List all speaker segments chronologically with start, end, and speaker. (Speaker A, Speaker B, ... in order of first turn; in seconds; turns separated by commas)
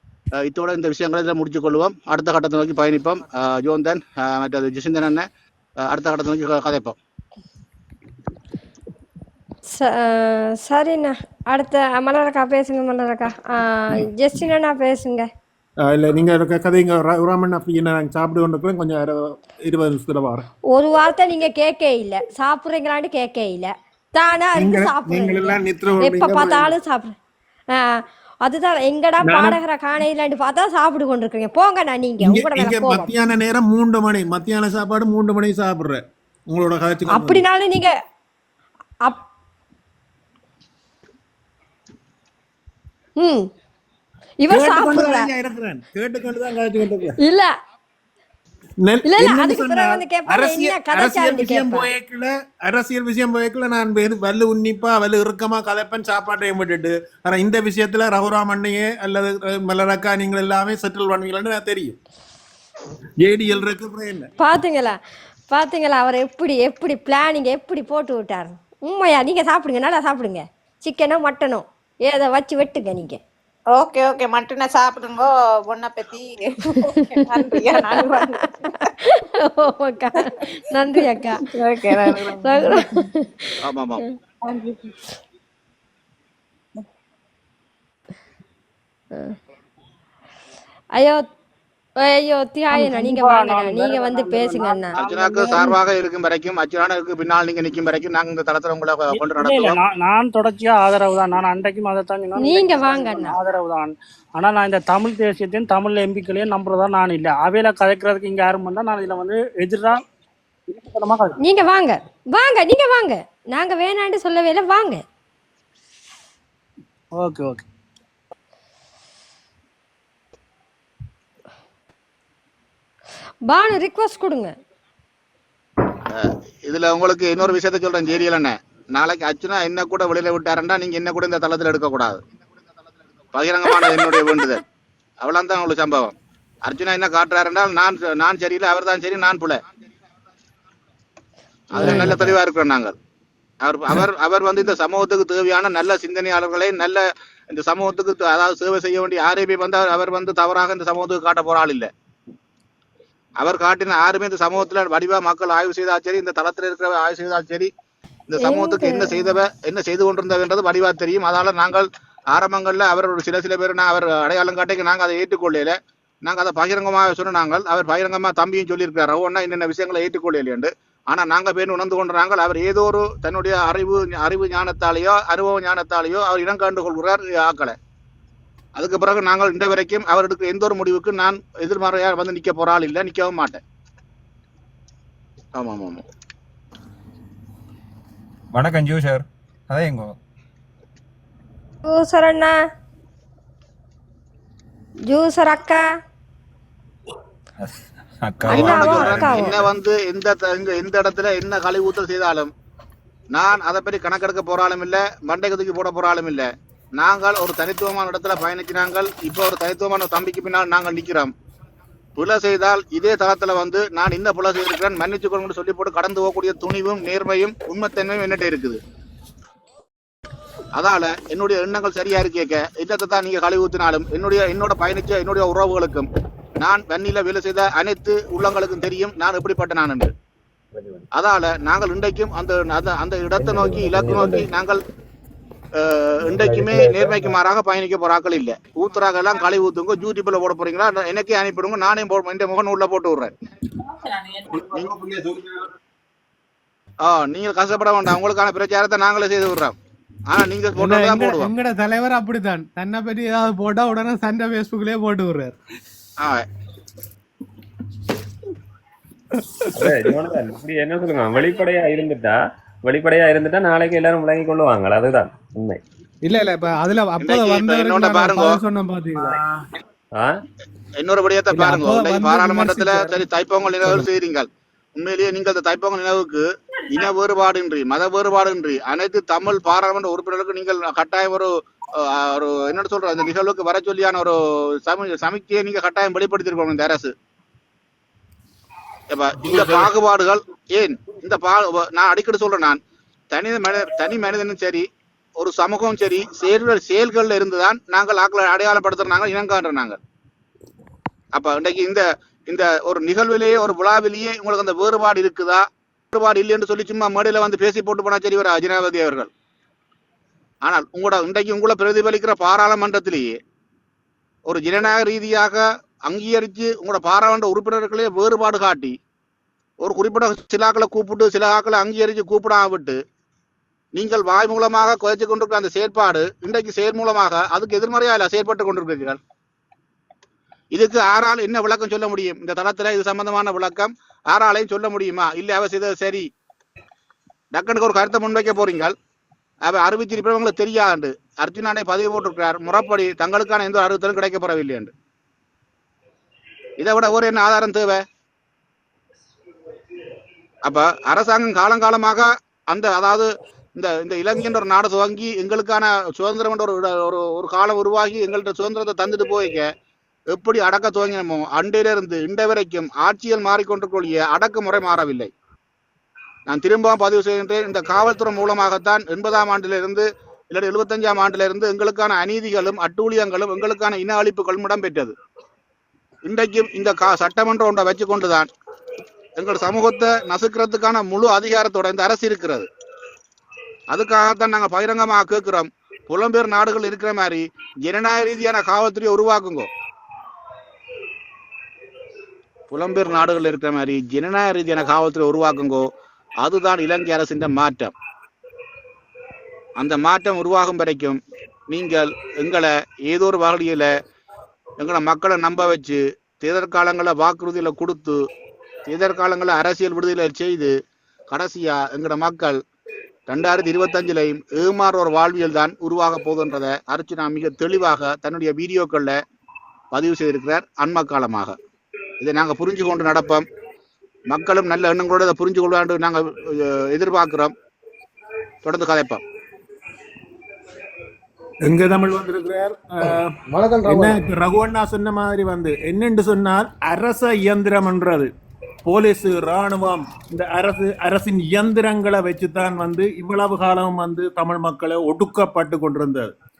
Speaker A: 0.4-5.3, Speaker A: 5.8-7.0, Speaker B: 9.7-15.3, Speaker C: 15.8-20.4, Speaker B: 20.7-27.1, Speaker C: 24.6-26.7, Speaker B: 27.7-33.1, Speaker C: 29.2-29.6, Speaker C: 32.2-37.4, Speaker B: 37.1-37.9, Speaker B: 43.2-43.5, Speaker B: 44.4-45.3, Speaker C: 44.5-47.1, Speaker B: 47.2-47.5, Speaker C: 48.8-62.0, Speaker B: 49.0-51.9, Speaker C: 63.2-64.3, Speaker B: 64.4-65.0, Speaker B: 65.5-73.2, Speaker D: 73.7-78.4, Speaker B: 76.7-77.3, Speaker B: 78.2-84.1, Speaker D: 81.5-82.8, Speaker A: 83.6-84.0, Speaker D: 84.4-84.9, Speaker B: 91.0-91.2, Speaker B: 92.0-95.0, Speaker E: 92.7-95.6, Speaker A: 94.9-99.8, Speaker E: 99.1-110.0, Speaker B: 102.3-103.4, Speaker E: 110.7-111.3, Speaker B: 111.4-115.0, Speaker E: 117.2-117.6, Speaker B: 123.5-124.5, Speaker A: 126.1-132.2, Speaker A: 133.3-134.6, Speaker B: 134.1-134.4, Speaker A: 135.2-136.1, Speaker A: 136.6-139.6, Speaker A: 141.7-142.9, Speaker A: 143.6-151.9, Speaker A: 153.4-157.7, Speaker A: 158.3-177.7, Speaker B: 158.4-159.4, Speaker A: 178.8-183.6, Speaker A: 185.6-186.0, Speaker F: 188.5-190.1, Speaker B: 191.8-192.5, Speaker B: 195.1-195.8, Speaker F: 197.6-199.7, Speaker A: 198.4-202.5, Speaker B: 198.5-199.6, Speaker A: 203.3-211.3, Speaker A: 212.2-218.8, Speaker A: 220.8-226.1, Speaker A: 226.6-230.1, Speaker A: 231.1-234.8, Speaker A: 235.8-243.3, Speaker A: 244.6-245.1, Speaker A: 247.0-249.7, Speaker A: 250.3-251.5, Speaker G: 250.8-255.5, Speaker A: 256.2-256.4, Speaker H: 259.7-265.8, Speaker G: 266.2-269.4, Speaker A: 267.2-268.6, Speaker A: 271.0-287.1, Speaker G: 271.5-273.1, Speaker A: 289.1-292.8, Speaker C: 289.4-289.9, Speaker A: 293.3-294.8, Speaker A: 295.4-300.0, Speaker A: 301.3-305.6, Speaker A: 306.1-309.3, Speaker A: 310.6-313.3, Speaker A: 314.4-318.9, Speaker A: 319.8-323.0, Speaker A: 323.9-329.2, Speaker A: 330.7-336.2, Speaker A: 337.5-338.9, Speaker A: 339.6-344.9, Speaker A: 346.8-348.0, Speaker A: 350.6-359.6, Speaker A: 360.3-365.3, Speaker A: 366.5-375.1, Speaker A: 376.2-378.5, Speaker A: 379.4-382.7, Speaker A: 383.9-389.7, Speaker A: 392.7-395.8, Speaker A: 396.4-397.9, Speaker A: 399.8-401.2, Speaker A: 401.7-403.9, Speaker A: 404.8-408.1, Speaker A: 408.9-410.7, Speaker A: 411.3-412.6, Speaker A: 413.3-419.1, Speaker A: 419.9-421.5, Speaker A: 422.2-423.4, Speaker A: 424.3-427.5, Speaker A: 428.6-429.2, Speaker C: 431.6-438.3, Speaker C: 438.8-446.3